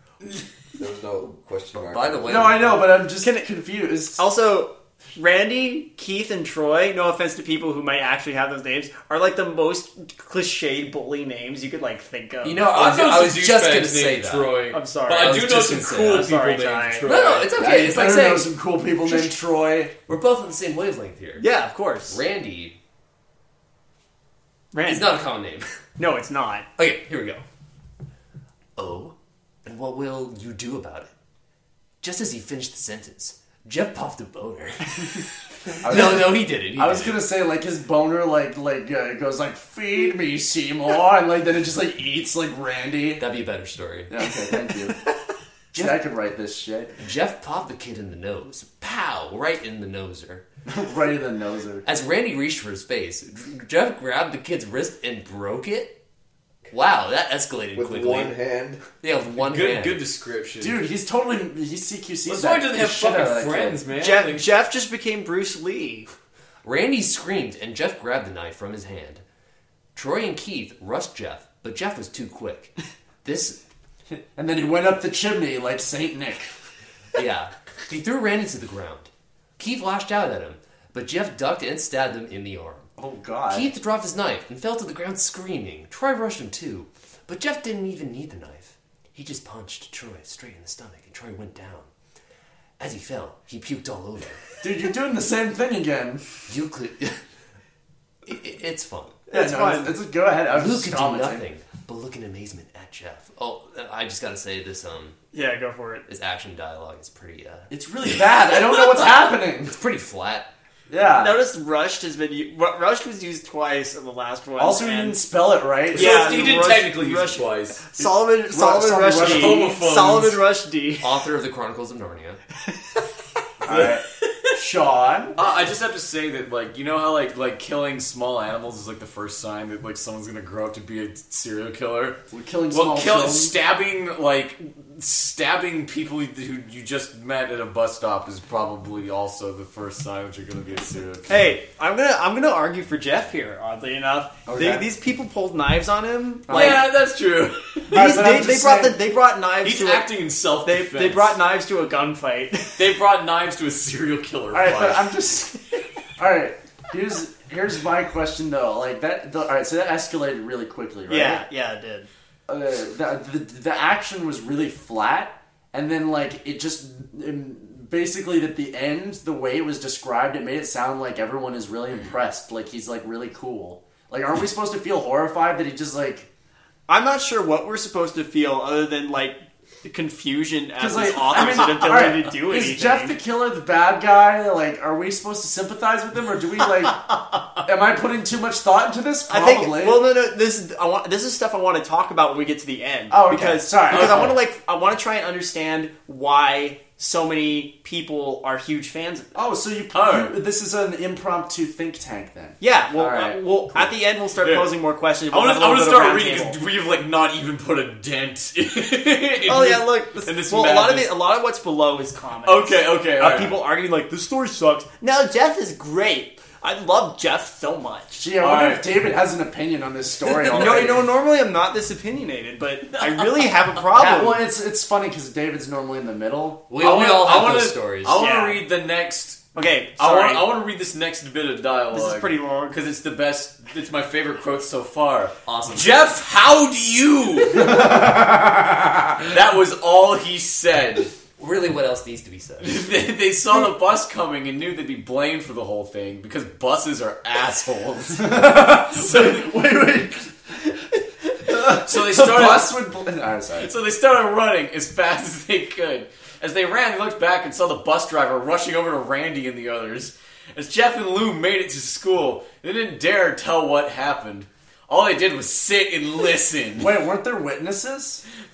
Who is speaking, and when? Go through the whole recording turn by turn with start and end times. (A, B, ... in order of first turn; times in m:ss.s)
0:00.8-0:02.8 A
0:01.9-0:02.9 B
0:02.3-0:04.2 C
0:03.1-0:03.5 D
0:04.2-0:12.7 D
0:12.4-0:16.4 B
0:12.7-0:17.5 E
0:14.7-0:17.1 D
0:17.0-0:18.5 B
0:17.6-0:19.9 C
0:20.1-0:21.5 B
0:21.4-0:22.2 D
0:22.1-0:22.8 B
0:24.7-0:25.2 D
0:24.8-0:25.8 B
0:26.0-0:26.7 D
0:26.8-0:27.4 B
0:28.8-0:31.1 B
0:32.0-0:35.2 B
0:35.8-0:37.2 B
0:35.8-0:43.2 C
0:43.2-0:44.2 B
0:44.1-0:45.0 C
0:45.7-0:46.0 B
0:45.7-0:46.9 C
0:47.0-0:50.4 B
0:50.7-0:51.9 C
0:51.9-0:56.0 B
0:56.7-0:58.4 B
0:57.8-0:58.8 A
0:59.0-1:00.0 B
0:59.3-1:00.8 E
1:00.6-1:03.8 C
1:02.3-1:04.5 E
1:03.9-1:06.1 D
1:06.6-1:09.2 B
1:10.0-1:12.7 B
1:13.2-1:13.6 B
1:14.3-1:16.5 C
1:17.2-1:22.9 B
1:23.0-1:23.7 C
1:23.5-1:31.9 B
1:32.8-1:34.4 B
1:34.6-1:36.3 C
1:36.5-1:37.2 B
1:38.2-1:39.2 B
1:39.3-1:40.0 D
1:39.3-1:41.4 C
1:40.5-1:45.2 B
1:45.3-1:46.1 D
1:46.1-1:47.7 B
1:47.7-1:49.8 C
1:49.7-1:50.5 B
1:50.9-1:51.4 C
1:51.0-1:55.2 D
1:54.6-1:56.4 C
1:55.9-1:57.9 E
1:55.9-2:01.2 D
1:58.0-1:59.8 C
1:59.1-2:00.4 E
2:01.0-2:02.4 B
2:03.6-2:05.4 C
2:03.7-2:04.5 E
2:05.4-2:12.2 E
2:12.3-2:13.5 C
2:12.7-2:21.6 E
2:21.3-2:26.9 D
2:24.5-2:24.8 C
2:26.5-2:26.9 C
2:26.5-2:27.9 E
2:27.9-2:30.1 D
2:27.9-2:29.0 C
2:29.6-2:31.4 E
2:30.6-2:32.9 D
2:32.8-2:35.1 E
2:34.5-2:35.6 C
2:36.2-2:41.4 C
2:41.1-2:42.1 D
2:42.5-2:56.3 C
2:56.9-3:03.2 D
3:00.8-3:07.0 C
3:07.7-3:10.0 C
3:09.3-3:19.3 D
3:13.1-3:14.4 C
3:13.9-3:14.4 E
3:19.4-3:23.9 C
3:19.9-3:20.4 E
3:22.6-3:26.6 D
3:24.4-3:24.7 E
3:25.3-3:31.1 E
3:29.4-3:38.3 D
3:32.4-3:33.6 E
3:38.2-3:41.1 C
3:38.4-3:38.9 E
3:40.2-3:41.0 B
3:40.5-3:44.5 D
3:42.9-3:43.5 E
3:43.9-3:46.7 C
3:46.7-3:48.2 B
3:46.8-3:57.9 E
3:48.1-3:48.6 D
3:49.6-3:50.5 D
3:51.9-3:52.8 D
3:55.5-3:55.9 B
3:57.6-3:58.6 C
3:59.2-4:01.1 E
4:01.4-4:02.8 B
4:02.6-4:09.5 E
4:08.2-4:10.4 C
4:11.5-4:13.7 C
4:11.5-4:12.8 E
4:13.6-4:27.0 E
4:26.8-4:28.2 C